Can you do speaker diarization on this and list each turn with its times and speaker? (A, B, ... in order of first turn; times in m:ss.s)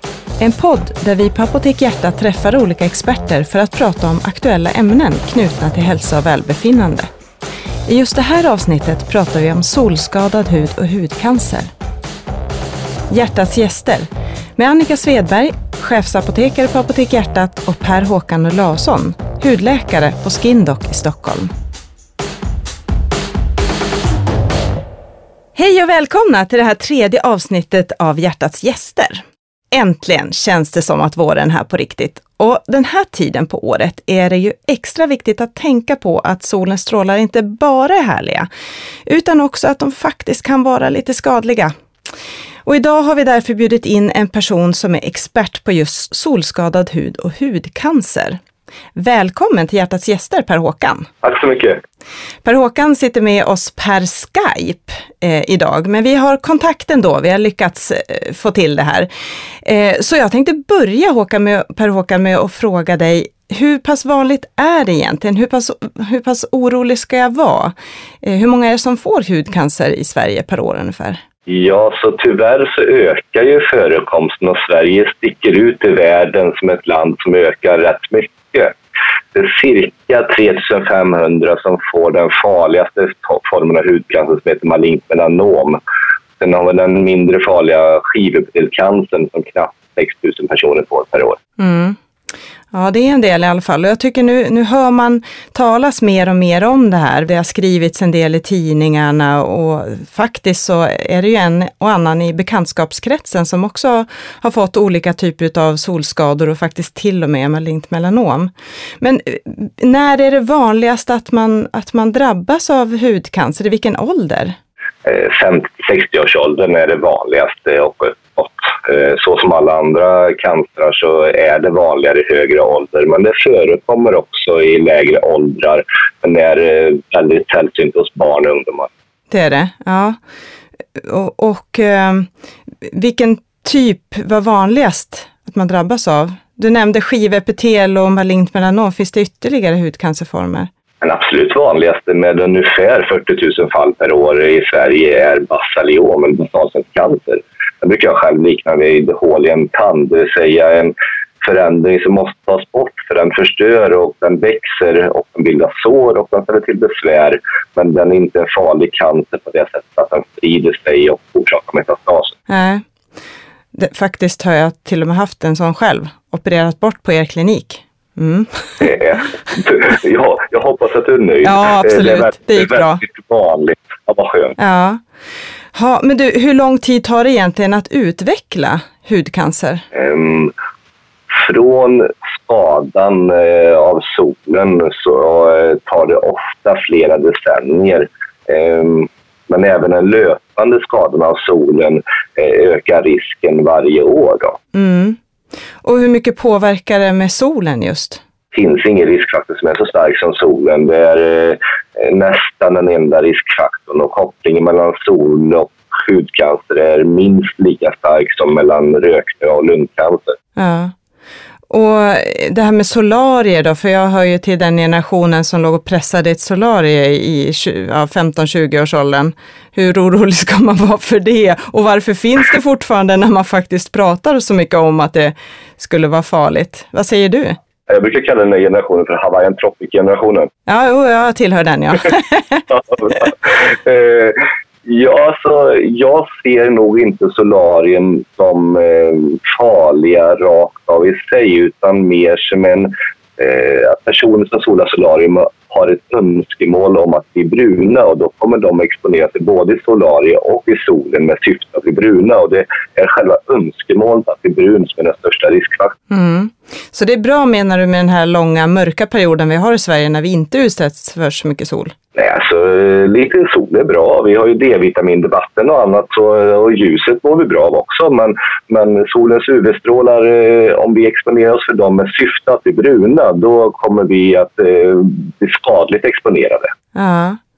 0:00.4-0:07.1 A
0:07.9-0:11.7 A
0:13.1-0:21.5 A
0:25.6-0:38.5 A
0:39.1-0:41.7 A
0:42.6-0:48.4 A
0:48.9-0:51.1 A
0:51.2-0:51.8 B
0:52.4-0:59.1 A
0:59.6-1:11.2 A
1:11.5-1:18.7 B
1:19.3-1:25.8 B
1:26.4-1:31.4 B
1:31.6-1:32.0 A
1:32.7-1:54.5 A
1:55.0-2:08.9 B
2:09.3-2:10.2 A
2:11.0-2:12.3 A
2:12.8-2:20.7 A
2:21.0-2:42.4 B
2:42.5-2:42.8 A
2:43.7-2:48.8 A
2:48.8-2:54.6 B
2:51.4-2:53.0 A
2:54.6-2:55.0 A
2:55.7-2:59.8 A
2:59.9-3:00.5 B
3:01.4-3:14.6 B
3:14.7-3:15.2 A
3:15.8-3:18.2 A
3:18.5-3:30.4 B
3:30.6-3:30.9 A
3:31.7-3:47.6 A
3:47.9-3:50.5 B
3:50.7-3:52.6 A
3:52.7-4:15.9 B
4:16.1-4:21.9 A
4:22.1-4:36.7 B
4:36.9-4:37.4 A